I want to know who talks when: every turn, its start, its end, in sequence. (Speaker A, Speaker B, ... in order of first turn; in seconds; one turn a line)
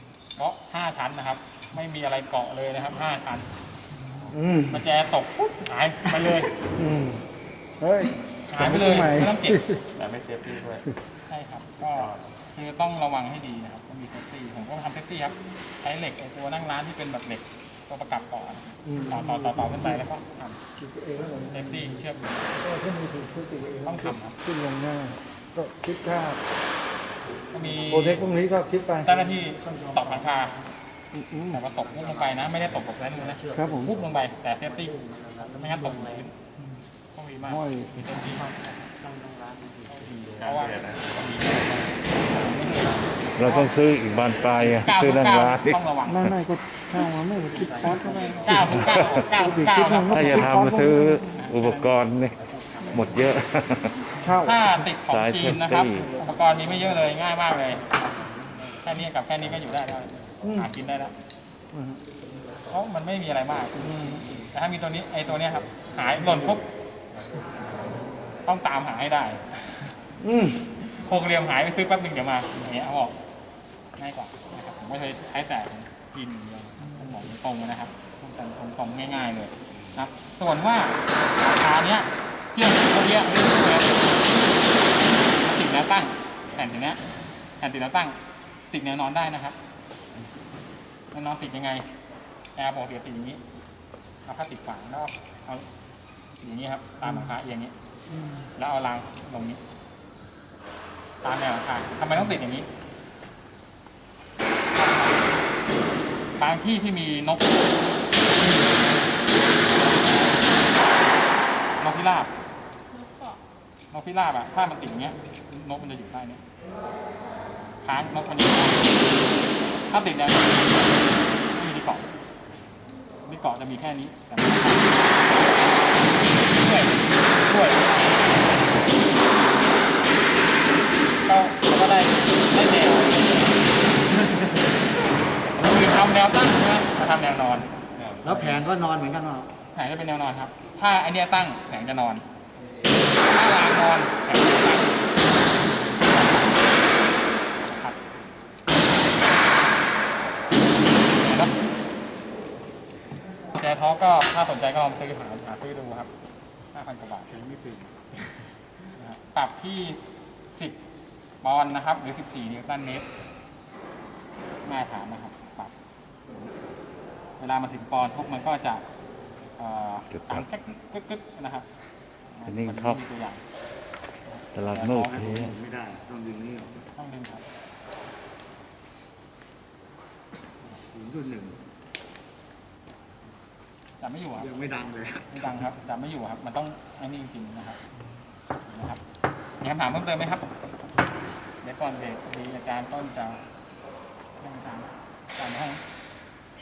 Speaker A: 0.4-3.5
Speaker B: 4.2-4.9
Speaker A: 4.7-6.5
Speaker B: 6.8-7.2
Speaker B: 7.8-9.9
Speaker A: 8.5-9.7
Speaker C: 10.0-10.9
Speaker A: 11.3-20.6
Speaker C: 11.8-12.2
Speaker B: 18.9-20.0
Speaker B: 20.8-22.0
Speaker A: 21.5-22.6
Speaker B: 22.6-26.4
Speaker A: 23.8-24.4
Speaker A: 27.5-28.3
Speaker B: 27.9-29.3
Speaker A: 29.0-30.6
Speaker B: 31.1-31.6
Speaker A: 31.5-36.3
Speaker D: 33.5-33.8
Speaker B: 33.5-34.0
Speaker D: 35.0-35.6
Speaker A: 37.1-38.5
Speaker B: 37.5-38.4
Speaker D: 38.5-39.8
Speaker A: 39.9-40.8
Speaker C: 40.2-41.9
Speaker A: 42.1-43.8
Speaker E: 43.4-45.8
Speaker A: 44.6-46.3
Speaker B: 46.1-51.3
Speaker C: 47.7-48.1
Speaker D: 47.8-48.2
Speaker A: 48.3-50.5
Speaker E: 48.7-49.2
Speaker E: 50.1-54.1
Speaker A: 51.4-52.0
Speaker B: 54.2-54.9
Speaker A: 54.4-57.9
Speaker E: 55.1-56.1
Speaker A: 58.8-61.1
Speaker B: 60.4-60.7
Speaker B: 61.7-62.0
Speaker A: 62.7-66.7
Speaker B: 63.8-64.3
Speaker A: 68.5-70.0
Speaker B: 70.2-70.7
Speaker A: 70.8-73.2
Speaker A: 74.0-84.1
Speaker B: 76.9-77.2
Speaker A: 85.3-87.0
Speaker A: 87.6-89.6
Speaker A: 91.1-91.9
Speaker A: 92.6-93.4
Speaker A: 94.2-95.7
Speaker A: 96.4-97.7
Speaker B: 97.0-97.3
Speaker B: 98.1-98.5
Speaker A: 98.6-99.6
Speaker A: 101.2-102.7
Speaker A: 104.8-105.2
Speaker A: 106.4-107.8
Speaker A: 111.8-112.3
Speaker A: 113.9-116.4
Speaker A: 117.8-119.0
Speaker A: 119.9-122.1
Speaker A: 123.2-125.6
Speaker A: 126.3-128.5
Speaker A: 131.3-133.7
Speaker A: 135.6-137.7
Speaker C: 138.0-138.6
Speaker D: 138.2-139.5
Speaker A: 139.7-142.2
Speaker A: 143.2-145.0
Speaker A: 146.0-146.8
Speaker A: 147.6-148.0
Speaker A: 150.8-151.6
Speaker A: 153.6-156.1
Speaker A: 156.7-157.3
Speaker C: 157.4-157.9
Speaker D: 157.5-158.0
Speaker A: 159.0-160.0
Speaker A: 161.4-163.1
Speaker A: 164.6-165.7
Speaker A: 167.4-168.8
Speaker A: 169.6-171.7
Speaker E: 170.1-170.5
Speaker A: 172.3-173.4
Speaker E: 172.5-173.0
Speaker A: 174.3-175.2
Speaker E: 174.5-175.6
Speaker D: 175.0-176.8
Speaker A: 176.9-177.4
Speaker D: 180.7-181.6
Speaker A: 184.0-184.6
Speaker D: 184.4-185.3
Speaker A: 185.3-187.8
Speaker A: 188.7-189.0
Speaker A: 189.6-190.5
Speaker A: 191.6-193.4
Speaker A: 194.4-195.8